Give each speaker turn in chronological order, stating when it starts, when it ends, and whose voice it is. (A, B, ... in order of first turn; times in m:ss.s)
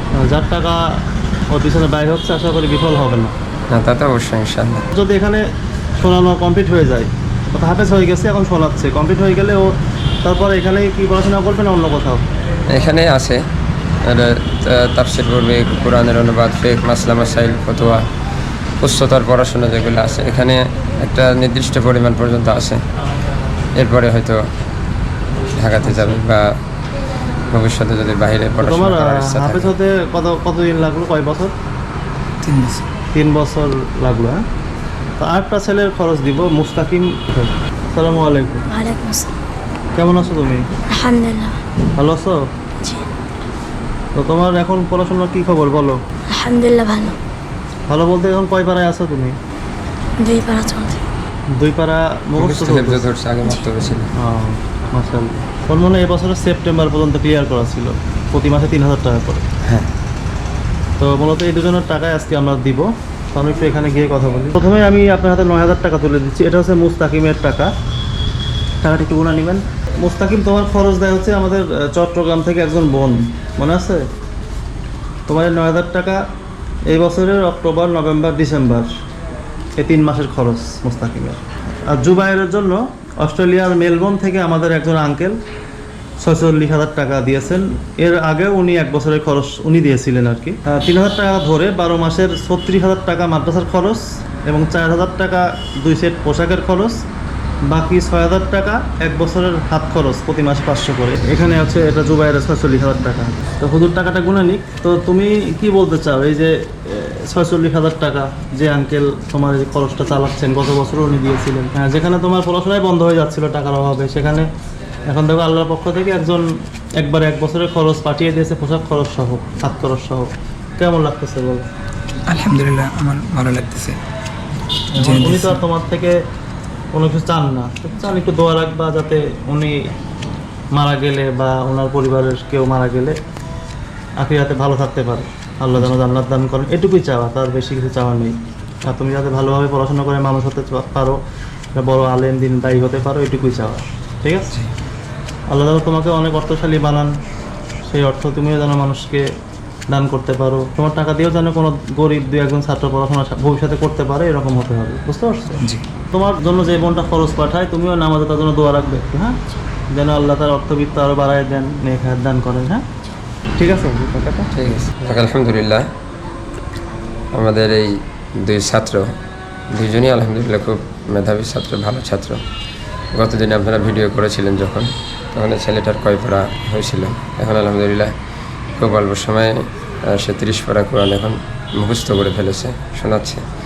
0:00.2-0:00.8 A
0:01.5-0:03.3 A
0:03.7-0:04.8 B
0:04.9-0:05.4 A
0:06.0-0:09.7 A
0:10.2-0:12.2 A
0:12.7-0:13.4 B
0:14.0-0:18.0 B
0:18.8-0:22.8 B
0:23.8-0:24.4 B
0:25.6-0:26.5 B
0:27.5-0:29.7 B
0:28.6-0:31.5 A
0:32.4-0:32.8 C
0:33.1-0:34.4 A
0:35.2-0:38.7 A
0:38.7-0:39.3 D
0:40.0-0:40.6 A
0:40.9-0:41.6 D
0:42.0-0:42.4 A
0:42.8-0:43.1 D
0:44.2-0:46.0 A
0:46.3-0:47.2 D
0:47.9-0:49.4 A
0:50.2-0:51.0 D
0:51.6-0:53.1 A
0:52.4-0:54.1 B
0:54.2-0:59.4 A
1:01.0-1:07.7 A
1:08.8-1:14.0 A
1:15.3-1:16.2 A
1:16.9-1:18.9 A
1:19.8-1:25.4 A
1:26.2-1:37.0 A
1:37.7-1:54.5 A
1:55.1-1:56.4 A
1:57.0-2:01.6 A
2:02.2-2:04.0 C
2:04.9-2:06.2 A
2:04.9-2:05.6 C
2:06.9-2:09.9 A
2:10.7-2:13.2 A
2:14.2-2:21.2 A
2:21.7-2:24.5 A
2:25.5-2:27.1 A
2:27.9-2:29.3 A
2:29.9-2:39.4 A
2:35.6-2:35.8 C
2:39.9-2:42.8 A
2:43.6-2:44.5 A
2:44.5-2:45.9 B
2:47.3-2:49.1 B
2:49.7-2:52.4 B
2:53.1-2:58.1 B
2:58.8-3:03.4 B